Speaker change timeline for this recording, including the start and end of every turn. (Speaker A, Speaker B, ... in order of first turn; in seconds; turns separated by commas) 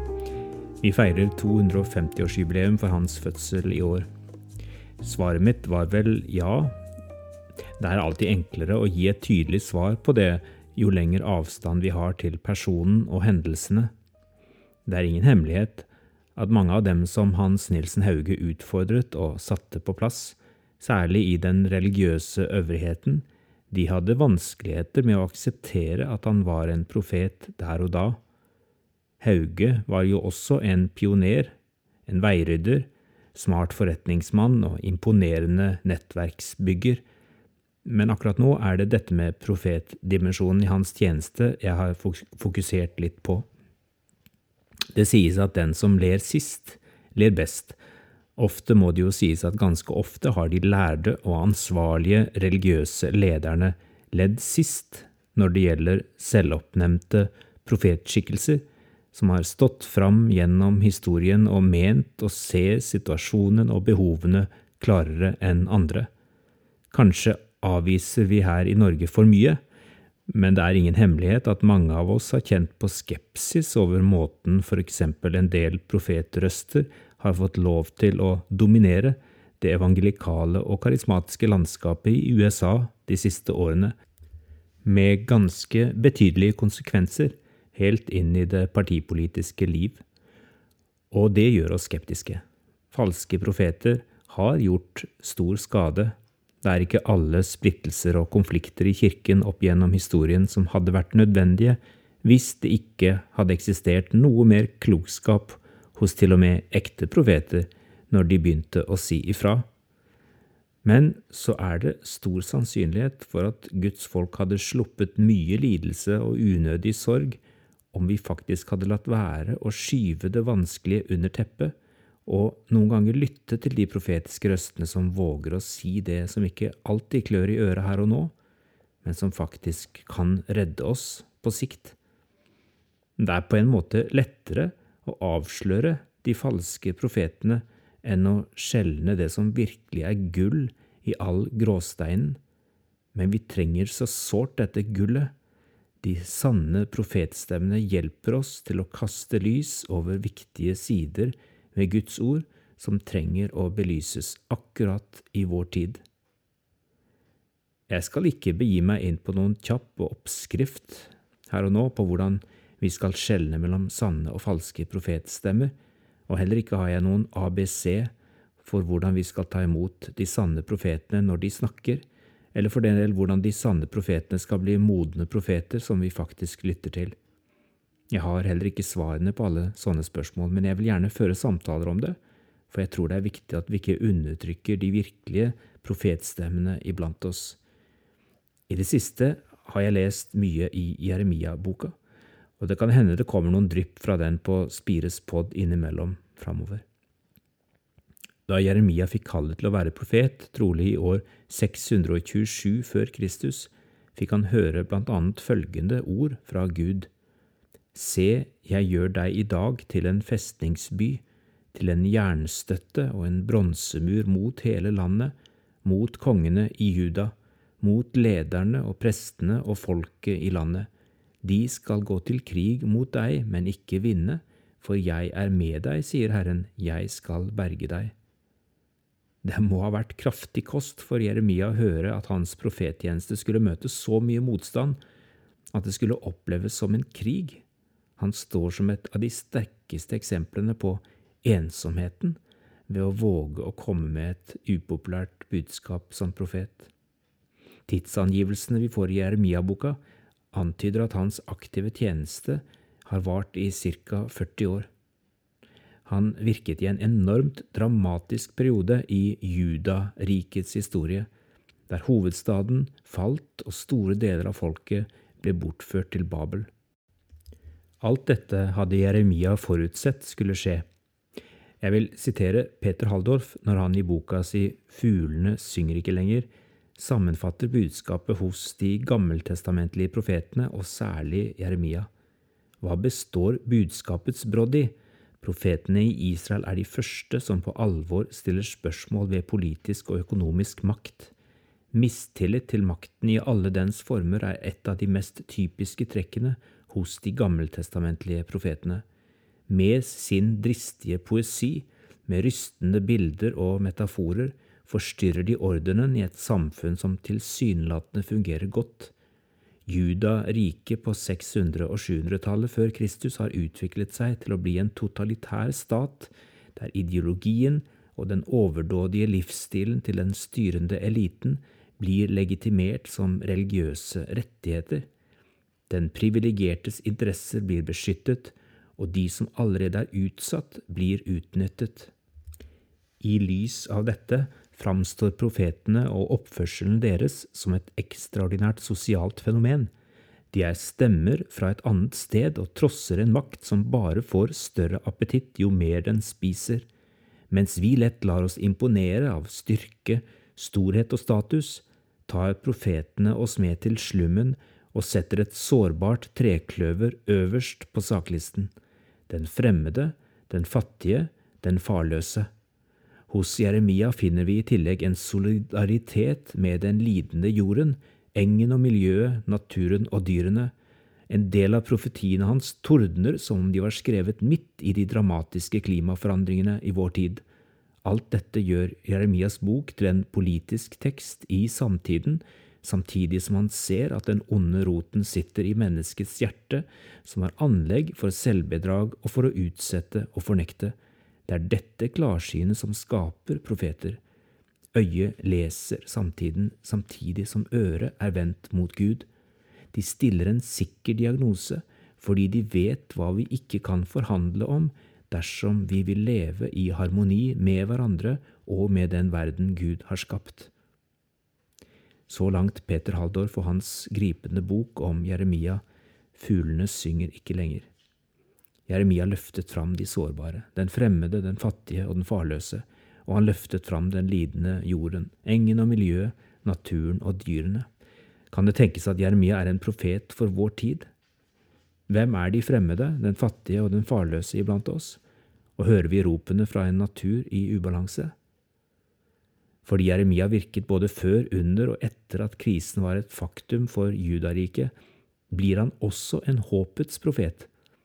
Speaker A: 0.8-4.1, Speaker A: 5.0-6.8, Speaker A: 7.8-13.9, Speaker A: 14.9-28.2, Speaker A: 29.2-31.5, Speaker A: 32.1-37.0, Speaker A: 37.8-43.5, Speaker A: 44.9-47.8, Speaker A: 48.4-66.1, Speaker A: 66.9-69.6, Speaker A: 70.3-84.0, Speaker A: 84.8-90.0, Speaker A: 91.1-109.7, Speaker A: 110.8-117.4, Speaker A: 117.9-128.3, Speaker A: 129.0-132.0, Speaker A: 133.2-142.4, Speaker A: 143.1-145.3, Speaker A: 146.0-156.0, Speaker A: 157.9-165.7, Speaker A: 166.3-177.2, Speaker A: 178.1-182.2, Speaker A: 182.7-187.6, Speaker A: 188.7-191.9, Speaker A: 192.6-196.8, Speaker A: 198.5-207.1, Speaker A: 207.9-211.2, Speaker A: 211.7-220.9, Speaker A: 221.4-228.1, Speaker A: 229.4-235.0, Speaker A: 235.7-237.6, Speaker A: 238.2-246.9, Speaker A: 247.9-250.0, Speaker A: 250.5-254.9, Speaker A: 256.1-261.3, Speaker A: 261.9-266.7, Speaker A: 268.0-270.9, Speaker A: 271.8-282.1, Speaker A: 282.8-291.3, Speaker A: 291.9-299.0, Speaker A: 299.7-309.1, Speaker A: 309.9-325.1, Speaker A: 325.9-332.1, Speaker A: 333.2-339.9, Speaker A: 340.5-346.9, Speaker A: 347.5-358.7, Speaker A: 359.3-362.5, Speaker A: 363.3-370.7, Speaker A: 371.3-377.4, Speaker A: 378.0-391.0, Speaker A: 391.5-394.2, Speaker A: 394.9-399.3, Speaker A: 399.9-410.7, Speaker A: 412.3-415.8, Speaker A: 416.4-417.9, Speaker A: 418.9-427.9, Speaker A: 428.5-431.1, Speaker A: 432.1-435.2, Speaker A: 435.8-438.3, Speaker A: 439.8-444.9, Speaker A: 445.5-447.7